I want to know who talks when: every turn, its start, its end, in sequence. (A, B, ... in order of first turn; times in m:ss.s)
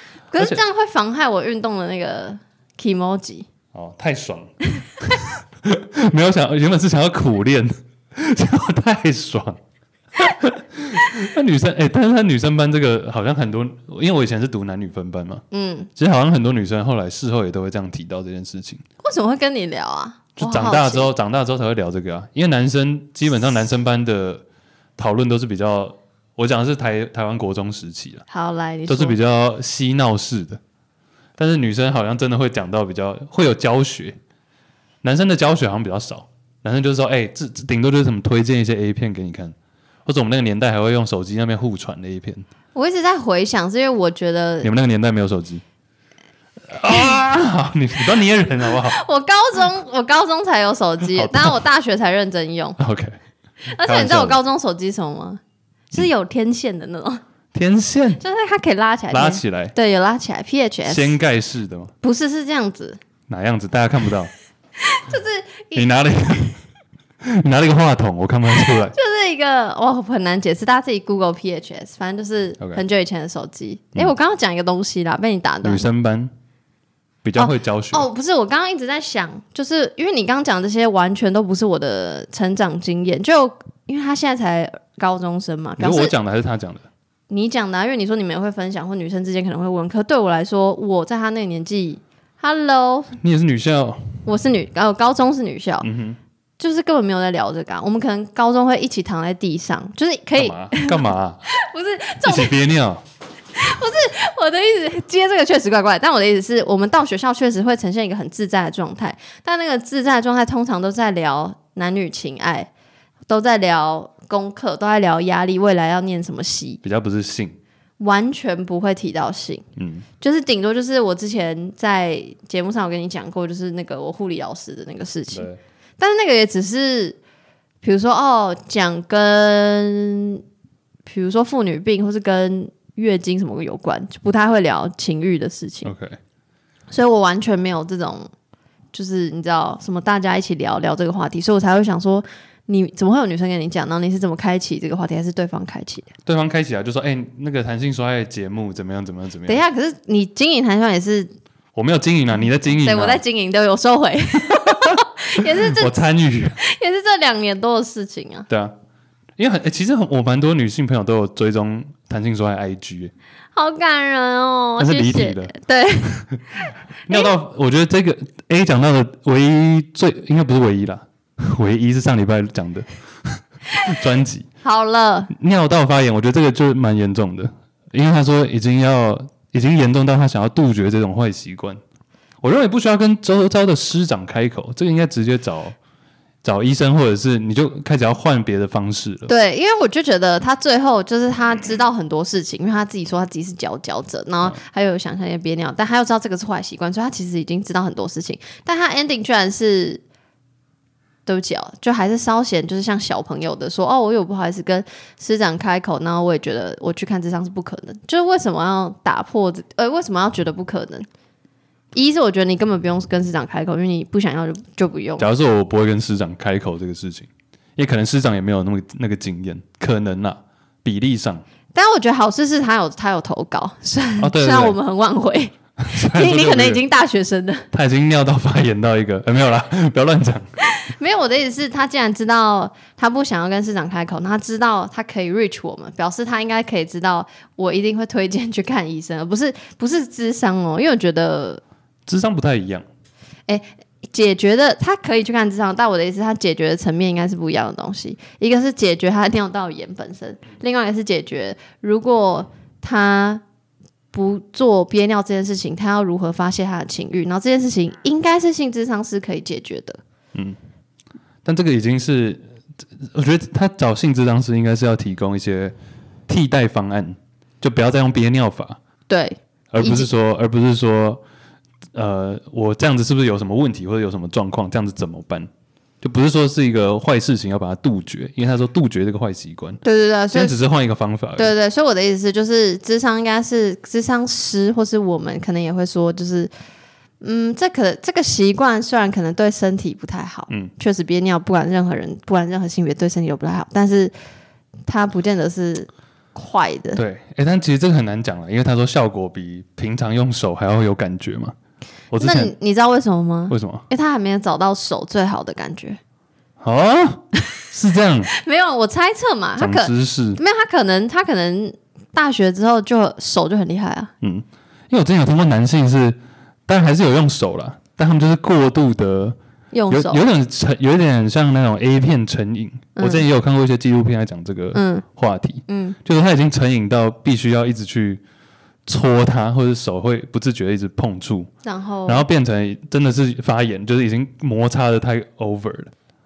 0:00.3-0:03.5 A
0:03.7-0:09.6 B
0:10.2-0:15.4 B
0:15.5-0:15.9 A
0:16.0-0:18.8 B
0:19.0-0:21.1 A
0:20.4-0:24.4 B
0:25.0-0:28.2 B
0:28.3-0:29.2 A
0:28.9-0:30.6 B
0:31.4-0:34.2 B
0:35.0-0:39.5 B
0:40.0-0:42.4 B
0:42.7-0:44.7 A
0:44.6-0:45.6 B
0:46.7-0:49.0 B
0:48.8-0:52.8 A
0:51.0-0:51.6 B
0:52.8-0:53.2 B
0:53.7-0:57.2 A
0:53.8-0:54.4 B
0:57.5-0:58.2 B
0:58.2-1:01.1 A
0:59.1-0:59.7 B
1:00.8-1:01.9 B
1:02.0-1:03.0 A
1:03.3-1:04.3 B
1:04.8-1:05.9 A
1:05.7-1:06.6 B
1:07.2-1:08.9 B
1:08.6-1:15.8 A
1:15.6-1:16.3 B
1:17.2-1:18.0 B
1:17.4-1:26.1 A
1:25.8-1:26.8 B
1:27.3-1:33.1 A
1:33.2-1:34.2 B
1:34.2-1:35.9 A
1:35.8-1:36.2 B
1:36.6-1:42.5 A
1:40.4-1:41.5 B
1:42.2-1:43.0 B
1:43.5-1:52.7 A
1:53.3-1:56.8 A
1:56.8-1:57.6 B
1:58.0-1:59.6 A
1:59.8-2:00.1 B
2:00.2-2:07.2 A
2:05.3-2:05.6 B
2:07.8-2:10.4 A
2:11.0-2:15.9 A
2:15.8-2:16.2 B
2:16.9-2:18.3 A
2:18.9-2:26.1 A
2:26.2-2:29.6 B
2:29.4-2:31.3 A
2:31.7-2:33.2 B
2:32.7-2:36.0 A
2:34.5-2:35.0 B
2:35.7-2:36.6 B
2:36.6-2:38.5 A
2:38.5-2:38.7 B
2:39.4-2:43.1 B
2:43.5-2:46.3 A
2:44.8-2:45.5 B
2:47.1-2:54.5 B
2:54.6-2:55.3 A
2:55.3-3:01.8 B
3:02.4-3:05.8 B
3:06.4-3:09.3 B
3:09.3-3:20.0 A
3:21.2-3:31.1 A
3:31.9-3:35.3 A
3:35.2-3:41.4 B
3:41.7-3:47.6 A
3:44.2-3:44.8 B
3:45.8-3:46.8 B
3:47.7-3:50.5 B
3:50.9-4:01.6 A
4:02.0-4:02.8 B
4:03.5-4:13.4 A
4:14.1-4:20.0 A
4:21.4-4:22.4 B
4:23.1-4:25.7 B
4:26.3-4:28.8 B
4:29.1-4:30.1 A
4:29.7-4:31.2 B
4:31.9-4:35.5 B
4:36.0-4:41.5 B
4:39.8-4:40.6 A
4:41.4-4:46.5 A
4:47.2-4:54.1 A
4:54.8-4:57.0 A
4:56.9-5:01.5 B
5:02.1-5:02.5 B
5:02.2-5:06.0 A
5:03.5-5:03.8 B
5:06.6-5:08.3 B
5:08.3-5:14.1 A
5:09.6-5:10.4 B
5:14.2-5:19.4 B
5:19.7-5:20.2 A
5:19.9-5:28.2 B
5:23.0-5:23.2 A
5:24.7-5:25.0 A
5:25.7-5:26.0 A
5:28.8-5:31.5 B
5:31.6-5:32.3 A
5:32.1-5:35.9 B